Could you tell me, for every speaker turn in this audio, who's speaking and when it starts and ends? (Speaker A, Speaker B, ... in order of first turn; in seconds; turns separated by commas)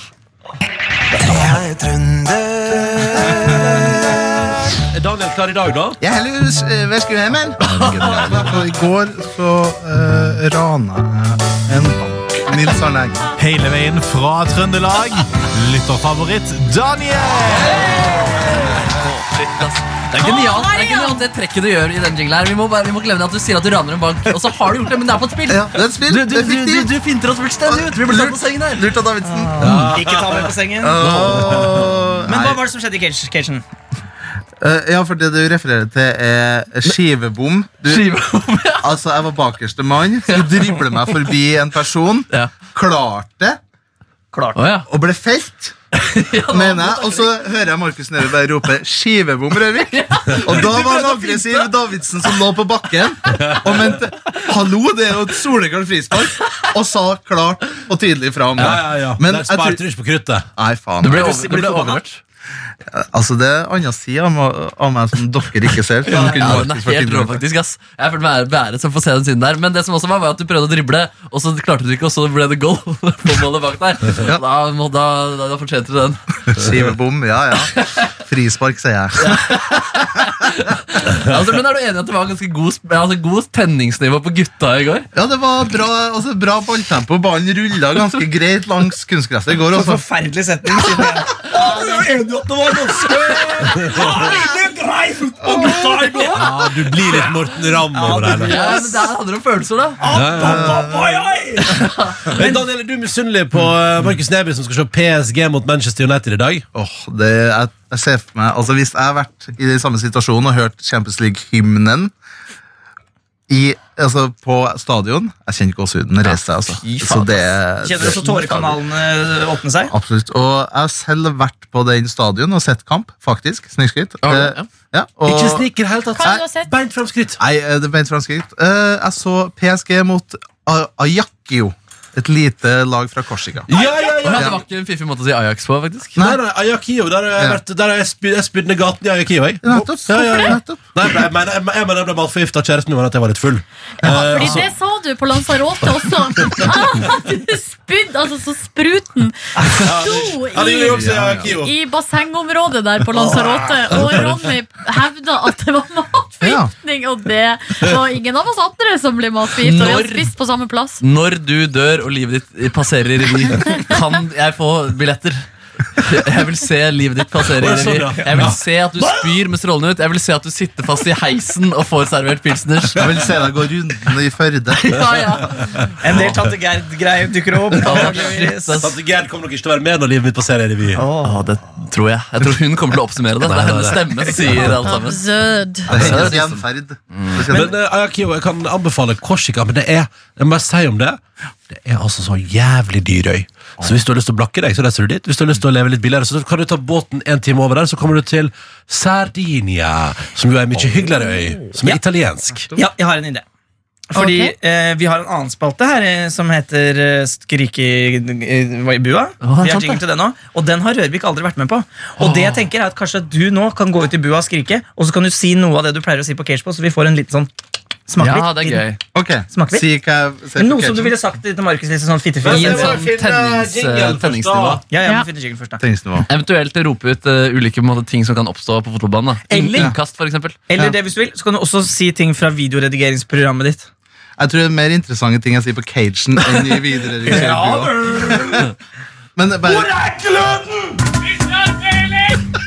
Speaker A: 1.2-3.7, Speaker B: 3.8-4.2, Speaker B: 4.9-6.0, Speaker C: 6.0-13.2, Speaker D: 13.4-17.8, Speaker E: 17.6-28.9, Speaker F: 20.2-21.2, Speaker C: 25.5-26.9, Speaker C: 27.6-29.9, Speaker A: 29.2-31.1, Speaker B: 29.6-30.5, Speaker C: 30.8-32.6, Speaker B: 31.0-31.9, Speaker A: 32.2-33.6, Speaker C: 34.6-38.1, Speaker E: 37.9-38.9, Speaker C: 38.8-43.6, Speaker E: 40.3-40.5, Speaker A: 44.3-44.6, Speaker E: 44.5-44.9, Speaker C: 44.9-45.7, Speaker E: 45.9-47.3, Speaker C: 46.5-59.8, Speaker E: 49.9-51.6, Speaker B: 53.3-53.9, Speaker B: 58.6-60.5, Speaker C: 60.5-61.7, Speaker E: 61.0-62.2, Speaker A: 61.1-62.0, Speaker C: 62.9-67.4, Speaker E: 66.0-76.2, Speaker A: 66.1-66.5, Speaker C: 76.5-79.6, Speaker E: 79.2-85.1, Speaker C: 85.1-90.0, Speaker A: 89.7-97.3, Speaker B: 93.7-94.3, Speaker C: 95.4-96.3, Speaker B: 96.3-98.7, Speaker A: 97.9-99.1, Speaker E: 98.3-100.0, Speaker A: 100.0-102.6, Speaker B: 100.1-100.8, Speaker C: 100.4-101.2, Speaker B: 102.3-106.7, Speaker C: 106.7-112.1, Speaker C: 113.5-118.8, Speaker E: 116.2-117.4, Speaker A: 117.8-119.9, Speaker C: 119.9-125.7, Speaker E: 124.2-124.7, Speaker B: 125.2-127.4, Speaker F: 126.2-126.7, Speaker C: 127.4-133.7, Speaker B: 133.7-134.6, Speaker A: 133.7-134.1, Speaker E: 134.2-136.1, Speaker B: 136.2-144.7, Speaker C: 139.6-140.8, Speaker F: 144.0-161.0, Speaker B: 149.8-151.7, Speaker C: 151.0-151.4, Speaker B: 153.9-154.4, Speaker C: 156.4-156.7, Speaker E: 159.6-160.3, Speaker E: 161.0-165.4, Speaker E: 165.9-173.2, Speaker B: 167.5-168.6, Speaker A: 169.0-169.3, Speaker C: 172.9-175.0, Speaker E: 174.8-176.3, Speaker B: 175.6-175.9, Speaker A: 176.0-178.9, Speaker E: 177.8-178.9, Speaker B: 177.9-178.2, Speaker B: 178.8-181.0, Speaker A: 180.9-181.4, Speaker E: 181.2-185.2, Speaker B: 183.4-184.9, Speaker F: 184.5-185.9, Speaker E: 185.9-186.6, Speaker C: 185.9-187.8, Speaker B: 185.9-186.4, Speaker E: 187.1-187.4, Speaker B: 187.5-191.2, Speaker B: 191.7-202.7, Speaker A: 202.7-203.4, Speaker A: 204.1-217.5, Speaker F: 204.1-204.5, Speaker E: 209.4-210.0, Speaker E: 212.2-212.6, Speaker A: 218.1-218.8, Speaker E: 218.2-219.0, Speaker C: 219.1-221.2, Speaker A: 219.5-219.8, Speaker A: 220.6-223.0, Speaker B: 222.4-224.8, Speaker E: 222.4-224.8, Speaker A: 224.9-225.8, Speaker C: 225.8-226.3, Speaker E: 226.3-230.6, Speaker A: 229.5-229.9, Speaker A: 230.7-233.9, Speaker C: 234.4-238.7, Speaker A: 237.2-238.7, Speaker C: 239.3-239.9, Speaker A: 239.7-242.4